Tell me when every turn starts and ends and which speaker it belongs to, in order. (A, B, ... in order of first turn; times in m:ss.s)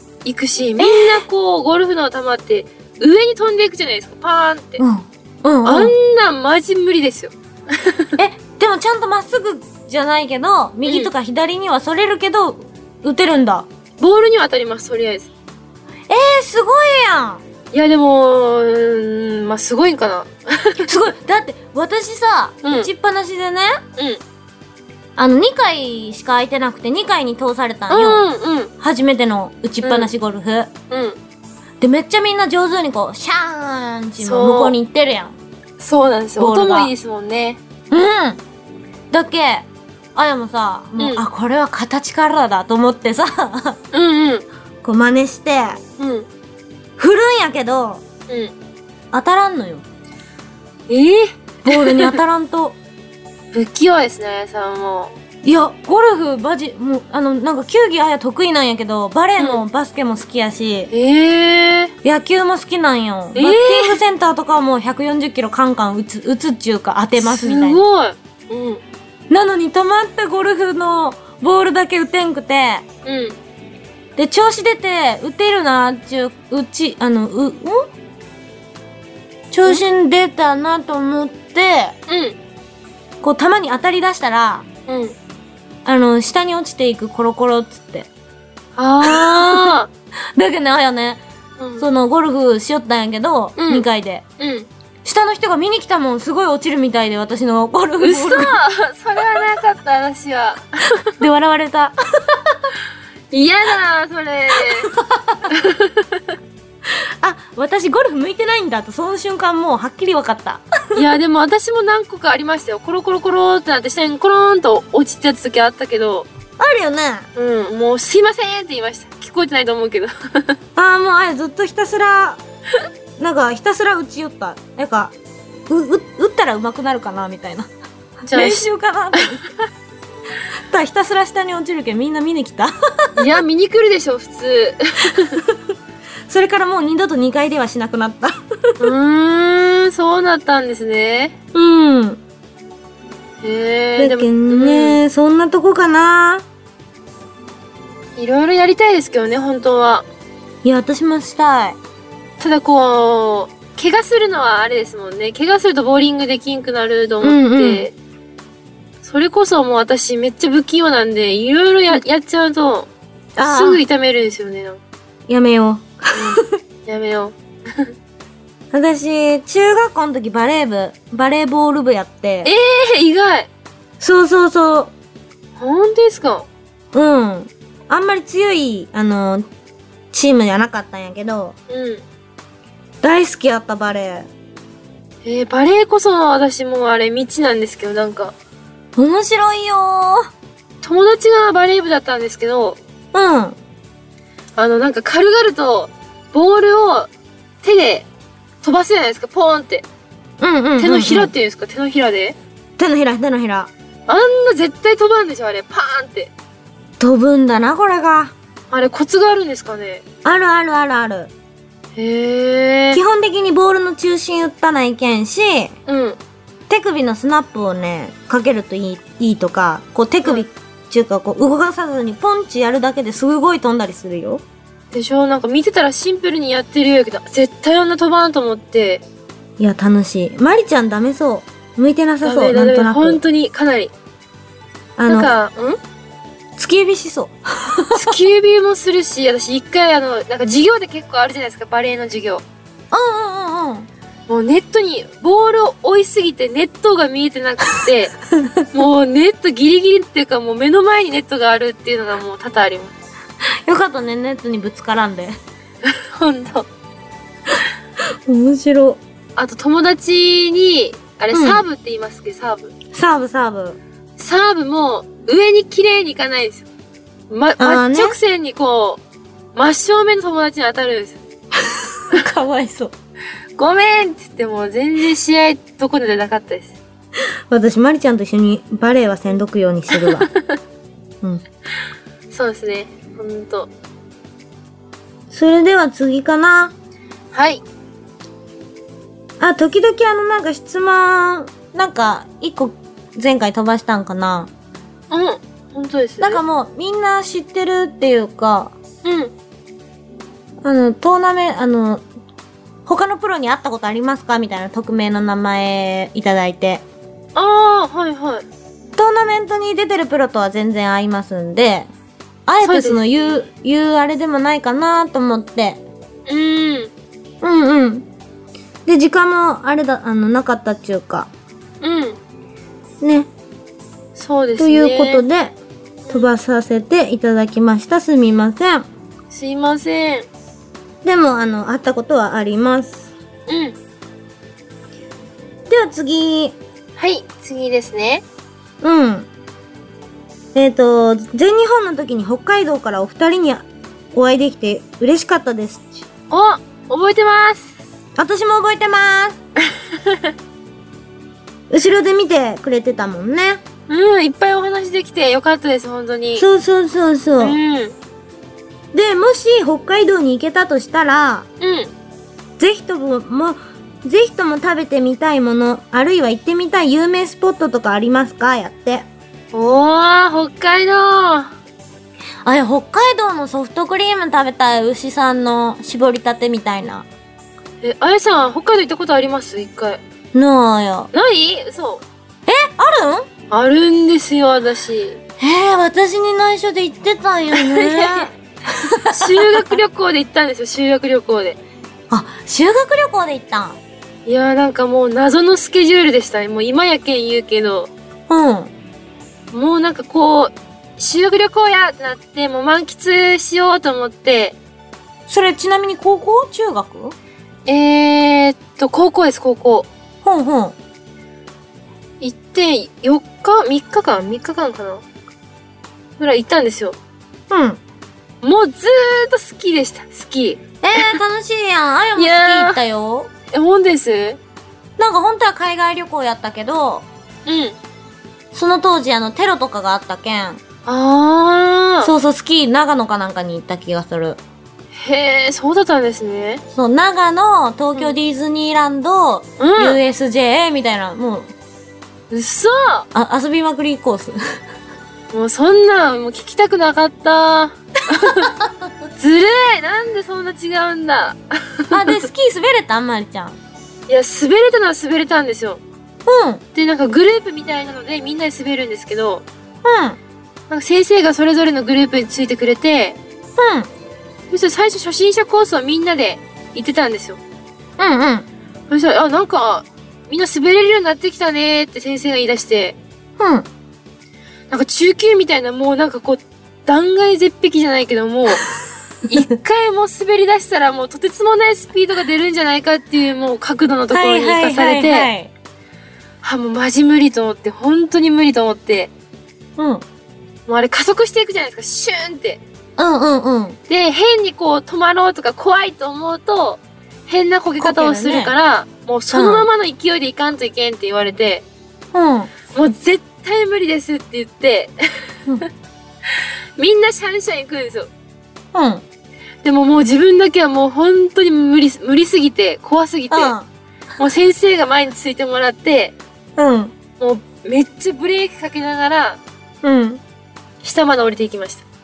0:00.2-0:04.8 A
0:00.8-0:01.2 B
0:04.8-0:05.9 B
0:05.6-0:08.2 A
0:08.2-0:13.7 B
0:10.8-0:11.1 A
0:14.0-0:15.3 A
0:16.1-0:17.4 B
0:17.7-0:20.9 A
0:20.9-0:23.8 B
0:22.6-0:22.9 A
0:25.2-0:28.3 B
0:27.9-0:28.7 A
0:28.8-0:30.7 B
0:29.8-0:30.1 A
0:30.9-0:31.2 A
0:31.8-0:35.4 B
0:34.2-0:34.8 A
0:35.8-0:37.6 A
0:36.4-0:36.9 B
0:37.9-0:38.4 B
0:39.1-0:43.8 B
0:41.0-0:41.2 A
0:43.9-0:44.4 A
0:44.8-0:45.8 B
0:46.0-0:46.3 A
0:47.0-0:48.0 B
0:49.1-0:49.8 B
0:50.9-0:52.2 A
0:51.6-0:52.8 B
0:53.5-0:55.2 A
0:55.4-1:00.9 B
0:59.4-0:59.6 A
1:00.9-1:01.9 A
1:02.0-1:07.8 B
1:03.4-1:04.0 A
1:07.2-1:08.8 A
1:09.3-1:12.8 B
1:13.0-1:13.4 A
1:14.2-1:17.9 B
1:19.5-1:22.0 B
1:22.1-1:22.4 A
1:23.2-1:24.6 B
1:24.9-1:25.1 A
1:25.8-1:28.1 B
1:28.8-1:29.9 A
1:29.0-1:29.8 B
1:30.4-1:31.2 B
1:31.6-1:31.9 A
1:31.8-1:34.2 B
1:33.6-1:33.9 A
1:34.4-1:34.7 A
1:35.0-1:38.6 B
1:38.0-1:41.1 A
1:41.2-1:42.7 B
1:43.3-1:44.9 A
1:44.9-1:45.4 B
1:45.5-1:46.2 A
1:46.9-1:51.0 B
1:51.0-1:56.3 A
1:56.6-1:57.3 B
1:57.4-2:00.6 A
2:00.8-2:02.4 B
2:03.2-2:05.1 B
2:05.7-2:07.7 B
2:08.3-2:09.4 A
2:08.3-2:09.4 B
2:10.6-2:13.2 B
2:13.2-2:15.4 A
2:16.3-2:18.8 B
2:18.8-2:21.3 A
2:21.5-2:22.2 B
2:23.4-2:25.0 A
2:24.0-2:26.4 B
2:28.2-2:30.1 A
2:30.6-2:31.8 B
2:32.4-2:37.9 A
2:37.2-2:37.9 B
2:39.0-2:42.9 A
2:43.4-2:43.8 B
2:43.4-2:44.8 A
2:45.3-2:46.5 B
2:46.1-2:47.9 A
2:48.7-2:52.5 B
2:52.4-2:53.5 A
2:54.0-2:54.9 B
2:55.6-2:56.5 A
2:56.9-2:59.4 B
3:00.1-3:01.6 B
3:01.7-3:02.0 A
3:03.0-3:04.3 B
3:05.2-3:08.3 A
3:09.0-3:10.3 B
3:10.8-3:12.8 A
3:13.1-3:13.6 B
3:14.6-3:17.1 A
3:17.6-3:18.1 A
3:18.6-3:19.8 A
3:20.4-3:21.3 B
3:20.8-3:22.4 A
3:22.8-3:23.7 B
3:24.1-3:26.3 A
3:27.0-3:28.3 B
3:28.7-3:30.0 A
3:30.2-3:31.3 B
3:32.0-3:33.0 A
3:32.9-3:35.8 B
3:35.9-3:36.2 A
3:36.7-3:44.4 B
3:44.9-3:49.0 A
3:49.6-3:53.2 B
3:52.2-3:53.9 A
3:55.0-3:55.4 B
3:55.1-3:55.8 A
3:56.6-3:58.2 B
3:57.9-4:02.4 A
4:02.9-4:03.9 B
4:04.3-4:08.1 A
4:08.4-4:08.6 B
4:08.7-4:13.0 A
4:13.6-4:15.4 B
4:15.8-4:16.7 A
4:18.3-4:19.0 B
4:19.4-4:22.7 A
4:21.3-4:21.6 B
4:22.9-4:23.8 B
4:24.2-4:26.6 A
4:27.3-4:29.0 A
4:27.6-4:28.2 B
4:29.6-4:31.2 A
4:31.6-4:32.9 B
4:33.6-4:36.8 A
4:37.5-4:40.3 B
4:39.9-4:40.6 A
4:42.3-4:43.7 A
4:45.3-4:46.7 B
4:47.3-4:47.6 A
4:49.4-4:54.5 B
4:55.1-4:56.4 A
4:56.2-4:58.7 B
4:59.0-4:59.3 A
5:00.6-5:02.0 B
5:02.9-5:06.8 B
5:07.4-5:08.4 A
5:09.0-5:11.9 B
5:12.5-5:15.8 B
5:12.6-5:13.4 A
5:16.3-5:16.9 A
5:17.4-5:18.1 B
5:18.9-5:21.3 B
5:21.8-5:22.2 A
5:23.0-5:23.3 B
5:24.2-5:25.2 A
5:24.6-5:25.6 B
5:26.1-5:28.9 B
5:29.3-5:30.3 A
5:31.0-5:33.1 B
5:33.5-5:33.8 A
5:35.7-5:36.6 B
5:37.0-5:38.2 A
5:38.8-5:39.3 B
5:40.5-5:46.0 B
5:46.3-5:47.8 A
5:48.2-5:49.4 B
5:51.7-5:53.6 B
5:53.9-5:56.4 A
5:56.4-5:57.6 B
5:57.4-5:58.0 A
5:58.9-6:01.5 B
6:01.6-6:01.9 A
6:02.6-6:09.1 B
6:09.5-6:11.6 A
6:12.4-6:17.1 B
6:17.8-6:20.0 A
6:20.3-6:21.1 B
6:21.1-6:22.0 A
6:22.5-6:23.3 B
6:23.5-6:25.2 A
6:25.4-6:29.6 B
6:27.5-6:28.3 A
6:28.9-6:31.6 A
6:32.1-6:33.8 B
6:34.3-6:37.9 A
6:38.3-6:38.7 B
6:39.5-6:44.6 A
6:45.3-6:47.1 B
6:47.6-6:49.9 A
6:50.2-6:50.8 B
6:52.2-6:55.0 A
6:56.2-6:57.0 A
6:57.5-6:57.8 B
6:58.4-7:01.2 A
7:00.8-7:03.3 B
7:02.2-7:02.8 A
7:03.5-7:04.4 A
7:05.0-7:07.1 B
7:07.5-7:07.8 A
7:08.5-7:10.6 B
7:10.9-7:12.1 A
7:12.0-7:14.4 B
7:15.0-7:16.6 A
7:16.7-7:21.5 B
7:19.6-7:20.0 A
7:22.3-7:23.1 A
7:23.1-7:24.6 B
7:25.3-7:28.5 A
7:28.4-7:28.9 B
7:29.2-7:32.2 A
7:31.9-7:33.6 B
7:34.1-7:35.8 A
7:36.3-7:36.6 B
7:36.8-7:39.4 A
7:39.8-7:40.2 B
7:40.7-7:43.2 A
7:43.6-7:43.9 B
7:44.5-7:47.4 A
7:48.0-7:48.5 B
7:48.9-7:53.0 A
7:53.4-7:53.7 B
7:54.7-7:58.7 A
7:59.3-8:05.3 A
8:04.1-8:05.5 B
8:06.4-8:09.1 A
8:09.8-8:10.0 B
8:10.7-8:12.6 A
8:13.0-8:13.8 B
8:13.9-8:21.6 A
8:17.8-8:18.5 B
8:19.3-8:19.7 B
8:22.1-8:22.5 B
8:22.7-8:25.6 A
8:26.3-8:28.1 A
8:28.7-8:29.0 B
8:29.6-8:33.6 A
8:33.3-8:33.7 B
8:34.2-8:36.1 A
8:36.6-8:36.9 B
8:37.2-8:39.4 A
8:39.8-8:40.2 B
8:40.8-8:41.8 A